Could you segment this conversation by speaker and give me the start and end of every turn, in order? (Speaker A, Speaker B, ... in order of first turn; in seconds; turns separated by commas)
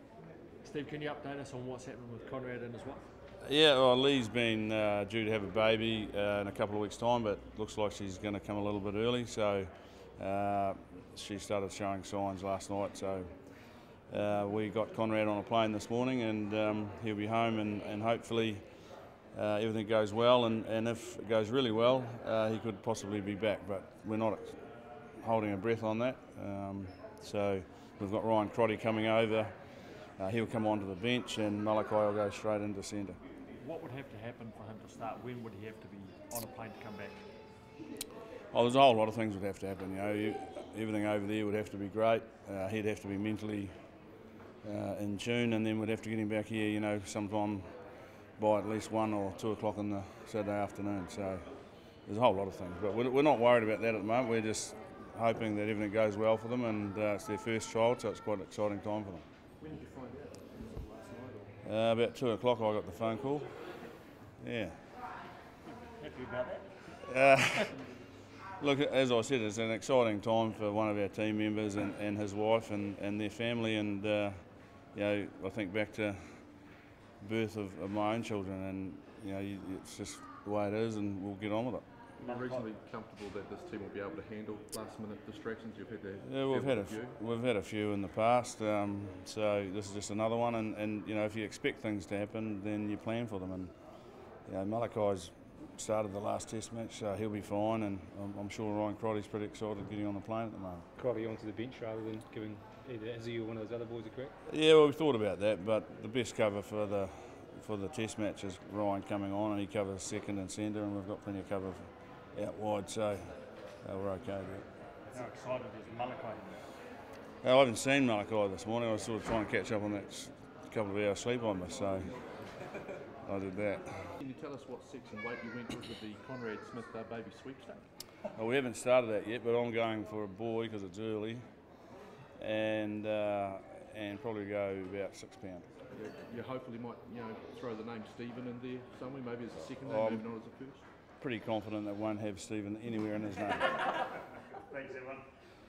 Speaker A: 0.6-3.1, Speaker B: 3.4-33.2, Speaker A: 33.6-37.2, Speaker B: 38.5-44.1, Speaker B: 44.6-59.2, Speaker C: 60.5-60.8, Speaker B: 61.6-64.8, Speaker A: 65.6-67.4, Speaker B: 67.0-68.0, Speaker B: 68.5-81.8, Speaker C: 82.2-87.2, Speaker A: 82.2-82.7, Speaker B: 86.2-100.8, Speaker D: 100.9-104.3, Speaker B: 104.4-114.7, Speaker A: 115.1-116.7, Speaker B: 117.4-122.2, Speaker B: 123.2-124.2, Speaker C: 124.2-127.9, Speaker B: 128.3-131.7, Speaker B: 132.3-135.7, Speaker C: 135.9-140.8, Speaker B: 139.8-140.3, Speaker B: 141.2-143.8, Speaker A: 144.6-145.3